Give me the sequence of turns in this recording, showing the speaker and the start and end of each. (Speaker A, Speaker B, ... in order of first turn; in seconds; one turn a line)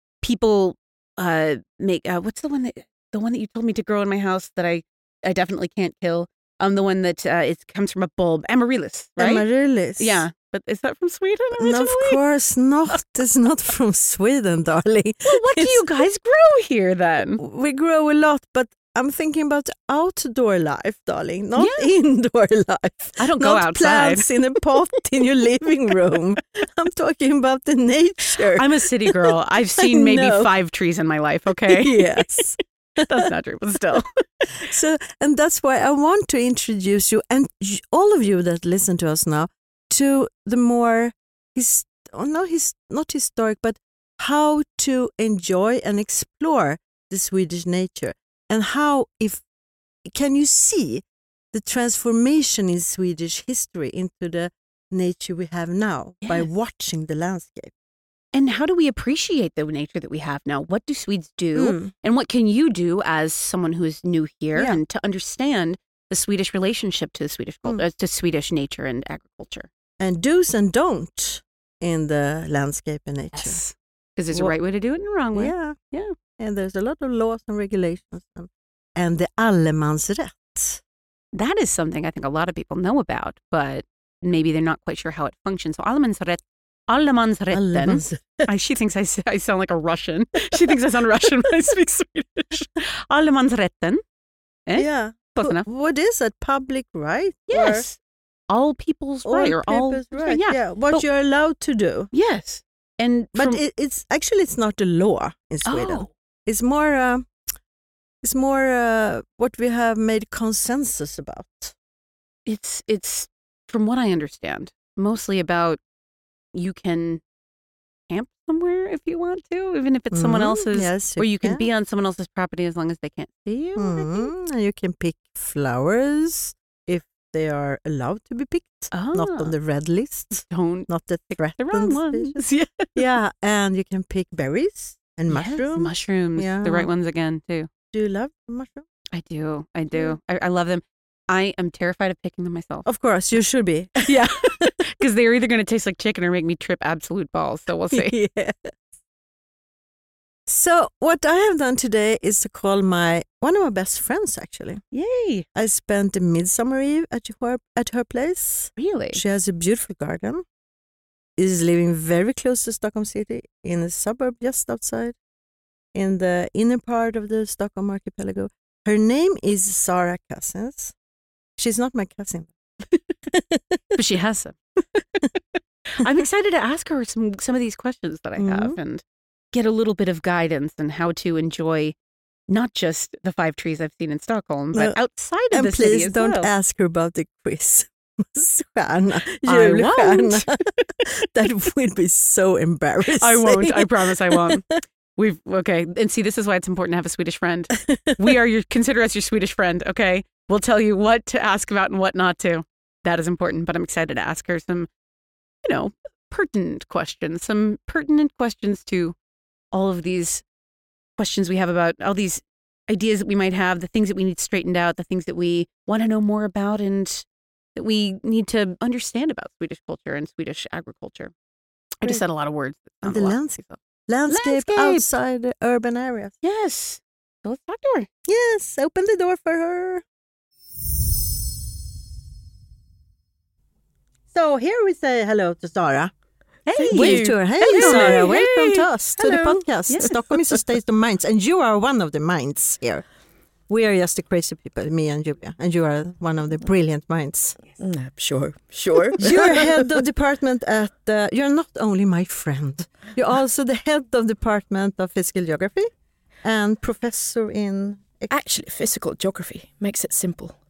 Speaker A: 0.2-9.4
Speaker B: 9.2-10.2
Speaker A: 10.0-12.2
Speaker B: 11.6-15.8
Speaker A: 15.2-17.4
Speaker B: 17.4-30.5
Speaker A: 21.6-21.9
Speaker A: 23.2-24.3
Speaker A: 28.6-32.4
Speaker B: 31.7-33.3
Speaker A: 33.0-34.1
Speaker B: 33.9-49.4
Speaker B: 50.1-57.7
Speaker A: 58.3-69.7
Speaker B: 61.5-61.9
Speaker B: 64.5-64.8
Speaker B: 70.0-73.6
Speaker A: 73.3-76.1
Speaker B: 75.3-75.8
Speaker B: 76.4-80.8
Speaker A: 81.3-94.0
Speaker B: 87.5-88.5
Speaker A: 94.7-95.7
Speaker B: 94.8-97.9
Speaker A: 97.5-98.0
Speaker A: 98.5-101.0
Speaker B: 99.2-102.1
Speaker A: 102.1-103.6
Speaker B: 103.3-107.4
Speaker A: 105.7-106.1
Speaker B: 108.2-111.7
Speaker A: 112.5-115.8
Speaker A: 116.5-117.2
Speaker A: 118.1-124.3
Speaker B: 120.2-121.7
Speaker B: 123.7-132.4
Speaker A: 128.9-129.5
Speaker A: 130.5-133.0
Speaker B: 132.9-136.9
Speaker A: 135.3-137.7
Speaker B: 137.9-138.9
Speaker A: 139.1-142.8
Speaker B: 142.8-144.7
Speaker A: 144.1-148.2
Speaker B: 147.9-148.8
Speaker B: 150.5-154.8
Speaker A: 154.9-155.4
Speaker B: 155.5-160.4
Speaker A: 158.8-159.2
Speaker B: 161.4-165.2
Speaker B: 165.9-170.9
Speaker B: 171.6-174.0
Speaker A: 173.9-174.6
Speaker A: 176.0-181.9
Speaker B: 178.4-178.8
Speaker A: 182.5-186.5
Speaker B: 184.7-185.0
Speaker B: 185.5-194.8
Speaker A: 189.4-190.9
Speaker A: 193.2-194.7
Speaker A: 195.2-204.9
Speaker B: 197.8-198.2
Speaker A: 205.6-209.2
Speaker A: 209.7-210.4
Speaker A: 211.2-221.3
Speaker A: 222.0-225.1
Speaker B: 223.0-226.3
Speaker A: 226.4-228.1
Speaker B: 228.2-230.0
Speaker B: 234.3-236.1
Speaker A: 236.7-240.2
Speaker C: 236.7-238.6
Speaker B: 236.9-243.0
Speaker C: 239.2-239.4
Speaker B: 243.7-247.6
Speaker C: 247.8-249.8
Speaker B: 249.2-255.9
Speaker B: 256.4-258.3
Speaker C: 258.3-260.6